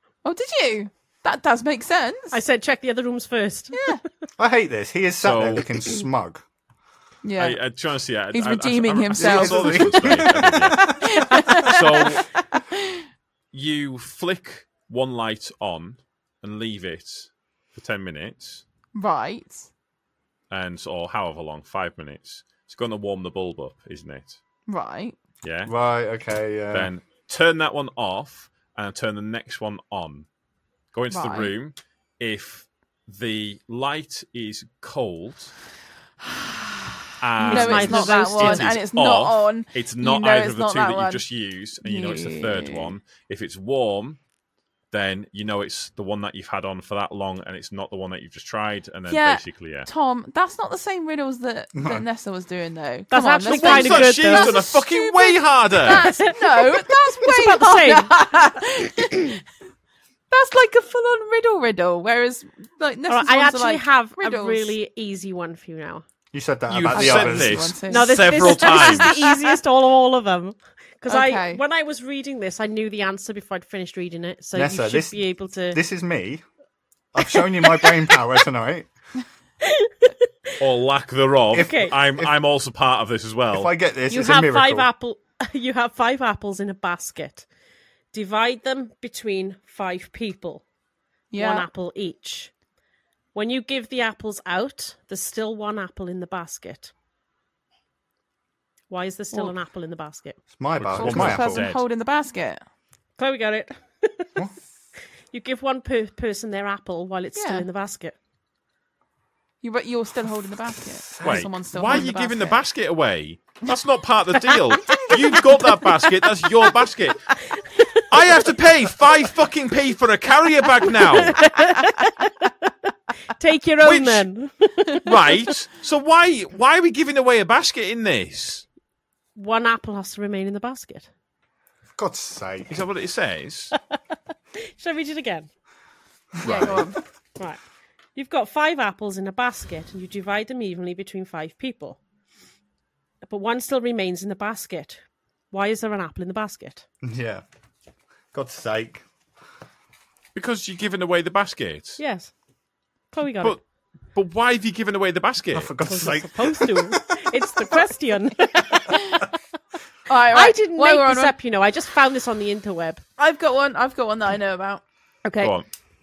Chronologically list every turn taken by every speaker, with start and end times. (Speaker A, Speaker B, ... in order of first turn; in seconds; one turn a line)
Speaker A: 0.2-2.4
Speaker B: 2.3-3.9
Speaker A: 3.7-4.0
Speaker C: 4.4-6.4
Speaker D: 5.2-5.7
Speaker A: 7.2-7.6
Speaker D: 7.4-10.8
Speaker A: 8.3-12.8
Speaker C: 9.1-10.9
Speaker D: 11.7-12.2
Speaker D: 13.5-18.6
Speaker A: 18.9-19.7
Speaker D: 20.5-24.4
Speaker A: 24.7-25.2
Speaker D: 25.4-25.7
Speaker C: 25.6-26.9
Speaker D: 26.7-30.3
Speaker D: 30.9-35.5
Speaker A: 31.1-31.5
Speaker D: 37.2-44.2
Speaker A: 37.4-41.2
Speaker B: 37.4-38.7
Speaker A: 41.8-42.9
Speaker D: 44.9-49.9
Speaker A: 49.1-59.4
Speaker C: 51.7-52.0
Speaker B: 53.1-54.7
Speaker D: 53.5-56.1
Speaker B: 55.8-58.3
Speaker A: 60.3-64.8
Speaker B: 63.1-66.0
Speaker C: 66.3-67.7
Speaker D: 66.7-69.1
Speaker A: 66.9-69.5
Speaker B: 67.8-75.8
Speaker A: 71.1-71.6
Speaker C: 74.5-76.4
Speaker C: 77.1-78.9
Speaker B: 77.3-77.9
Speaker B: 79.6-80.1
Speaker D: 80.6-83.7
Speaker C: 81.5-82.3
Speaker B: 81.6-81.9
Speaker C: 83.5-84.9
Speaker B: 84.1-87.5
Speaker B: 88.1-90.6
Speaker A: 91.3-91.7
Speaker B: 91.3-92.5
Speaker B: 93.3-96.9
Speaker B: 98.9-100.4
Speaker C: 100.5-101.7
Speaker D: 100.8-101.8
Speaker A: 100.9-102.6
Speaker B: 103.2-104.3
Speaker B: 105.3-108.1
Speaker A: 107.3-107.7
Speaker A: 109.6-112.6
Speaker C: 111.1-111.4
Speaker D: 111.2-117.4
Speaker B: 114.9-116.1
Speaker B: 117.7-118.0
Speaker D: 118.1-121.4
Speaker B: 120.9-122.5
Speaker B: 123.4-125.0
Speaker D: 123.8-124.3
Speaker D: 125.0-128.6
Speaker B: 129.3-131.1
Speaker C: 131.9-132.7
Speaker D: 132.7-133.7
Speaker B: 134.7-135.5
Speaker C: 136.4-136.9
Speaker A: 136.4-137.0
Speaker B: 138.2-142.0
Speaker B: 143.2-146.8
Speaker C: 147.0-147.4
Speaker C: 148.3-149.0
Speaker D: 150.3-152.0
Speaker B: 152.0-152.3
Speaker B: 153.1-153.6
Speaker D: 153.4-155.8
Speaker C: 155.5-157.1
Speaker B: 155.8-159.3
Speaker A: 160.1-161.3
Speaker B: 160.3-163.0
Speaker A: 163.2-164.8
Speaker D: 165.4-165.7